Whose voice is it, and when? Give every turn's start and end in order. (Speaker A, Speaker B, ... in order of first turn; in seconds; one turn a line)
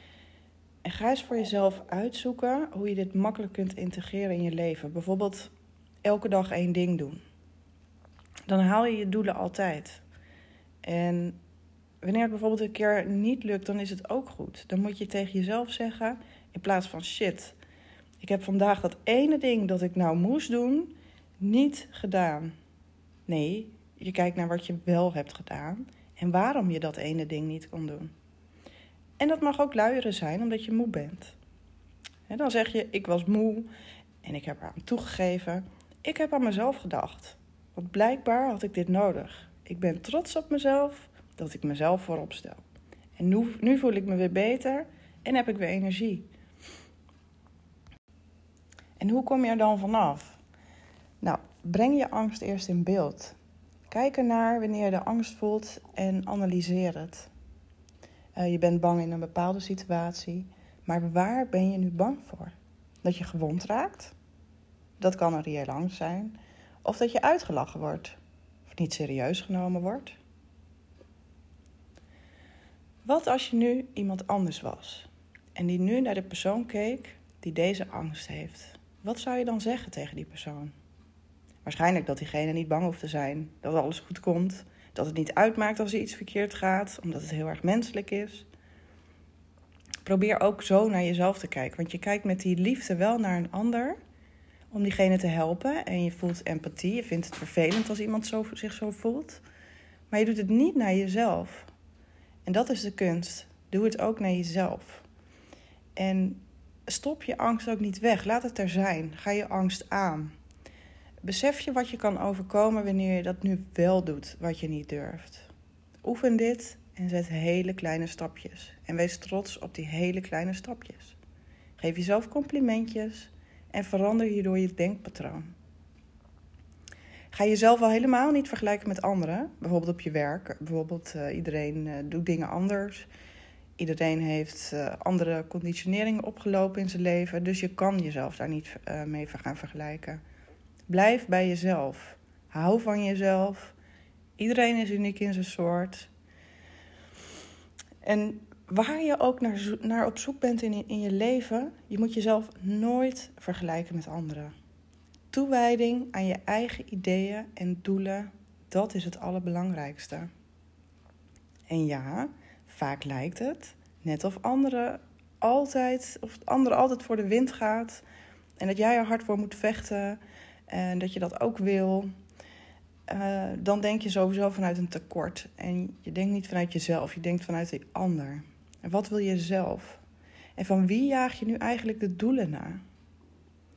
Speaker A: 0.8-5.5
Speaker A: 6.0-7.2
Speaker A: 8.5-10.0
Speaker A: 10.8-11.4
Speaker A: 12.0-17.6
Speaker A: 18.2-22.5
Speaker A: 23.3-28.1
Speaker A: 29.2-31.4
Speaker A: 32.3-33.7
Speaker A: 34.2-42.6
Speaker A: 43.2-46.3
Speaker A: 49.0-50.4
Speaker A: 51.2-53.4
Speaker A: 53.9-57.3
Speaker A: 58.4-64.1
Speaker A: 65.0-70.2
Speaker A: 73.0-80.7
Speaker A: 81.6-88.5
Speaker A: 90.0-94.0
Speaker A: 94.7-99.4
Speaker A: 100.1-101.7
Speaker A: 102.4-105.0
Speaker A: 106.0-110.3
Speaker A: 111.2-115.5
Speaker A: 116.0-121.2
Speaker A: 121.8-125.5
Speaker A: 127.3-133.1
Speaker A: 133.8-140.2
Speaker A: 140.9-143.7
Speaker A: 144.4-146.1
Speaker A: 148.0-154.5
Speaker A: 155.3-160.3
Speaker A: 161.7-168.0
Speaker A: 168.6-172.1
Speaker A: 173.1-180.0
Speaker A: 180.6-182.8